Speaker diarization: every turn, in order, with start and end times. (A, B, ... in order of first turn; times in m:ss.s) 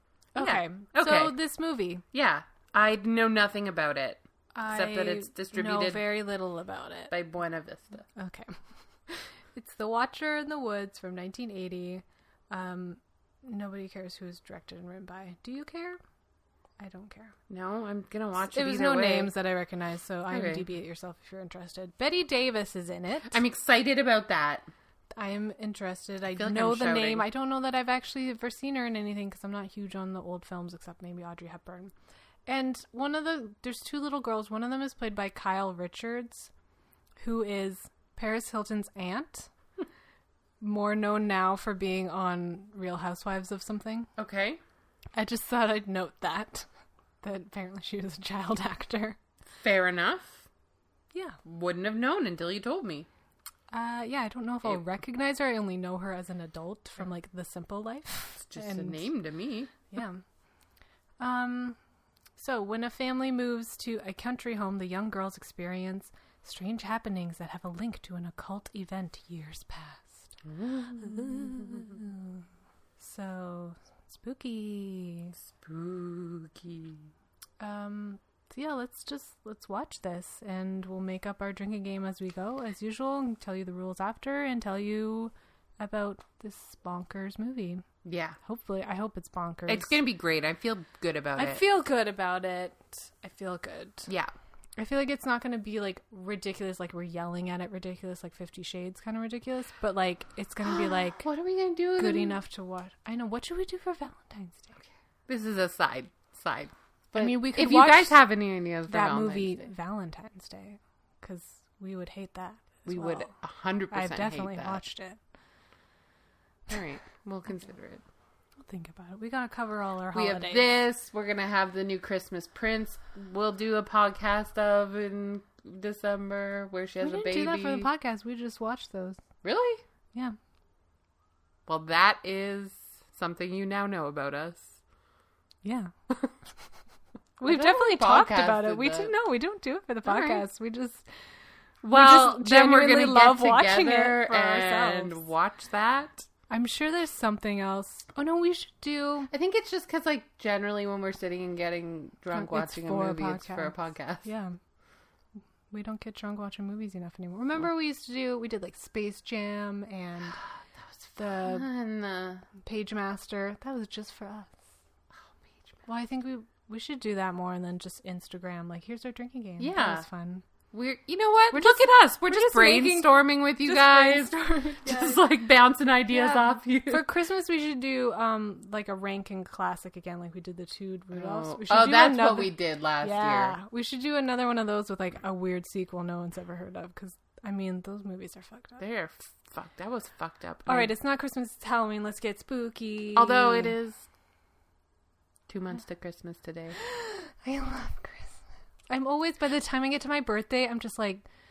0:00.3-0:02.0 A
0:00.4-0:01.4 B
0:02.1-0:06.0 B
0:04.5-0:07.1 A
0:07.1-0:08.1 B
0:08.1-0:08.6 A
0:09.5-0:16.0 A
0:16.8-0:17.4 A
0:17.5-0:19.3 B
0:18.4-0:23.4 A
0:20.3-0:20.6 B
0:23.3-0:24.7 B
0:25.2-0:31.9 A
0:26.3-0:27.2 B
0:32.5-0:36.5 A
0:37.2-0:39.5 A
0:40.6-0:44.1 A
0:44.2-0:44.6 B
0:45.1-0:46.7 A
0:47.2-0:49.2 A
0:49.6-0:50.4 B
0:51.1-0:51.4 A
0:51.4-0:53.1 B
0:53.7-0:59.1 A
0:58.4-0:59.8 B
0:59.9-1:00.2 A
1:01.2-1:01.8 A
1:02.4-1:10.4 A
1:10.4-1:12.0 B
1:11.0-1:12.4 A
1:13.0-1:15.4 A
1:15.4-1:17.1 B
1:17.6-1:27.8 A
1:28.0-1:28.4 B
1:28.4-1:30.0 A
1:29.7-1:31.6 B
1:31.4-1:34.1 A
1:34.1-1:34.3 B
1:34.8-1:41.3 A
1:40.6-1:42.4 B
1:42.0-1:44.8 A
1:45.3-1:49.6 B
1:47.1-1:48.2 A
1:48.9-1:53.3 A
1:52.8-1:54.8 B
1:53.9-1:55.2 A
1:56.7-1:58.0 B
1:58.6-2:00.6 A
2:00.1-2:07.9 B
2:07.0-2:09.2 A
2:09.4-2:09.8 B
2:11.7-2:14.8 B
2:15.6-2:15.9 A
2:17.4-2:21.1 A
2:17.4-2:19.1 B
2:20.0-2:20.4 B
2:21.8-2:25.2 A
2:21.8-2:26.3 B
2:26.5-2:29.3 A
2:29.3-2:34.3 B
2:32.3-2:34.6 A
2:35.7-2:40.4 A
2:41.1-2:41.6 A
2:41.2-2:42.4 B
2:42.6-2:44.6 A
2:45.8-2:50.4 A
2:49.6-2:50.0 B
2:50.7-2:57.0 B
2:51.5-2:55.2 A
2:56.1-3:08.8 A
3:01.1-3:03.6 B
3:08.8-3:10.9 B
3:10.7-3:13.8 A
3:13.2-3:14.0 B
3:15.5-3:16.8 B
3:16.8-3:18.4 A
3:18.9-3:21.2 A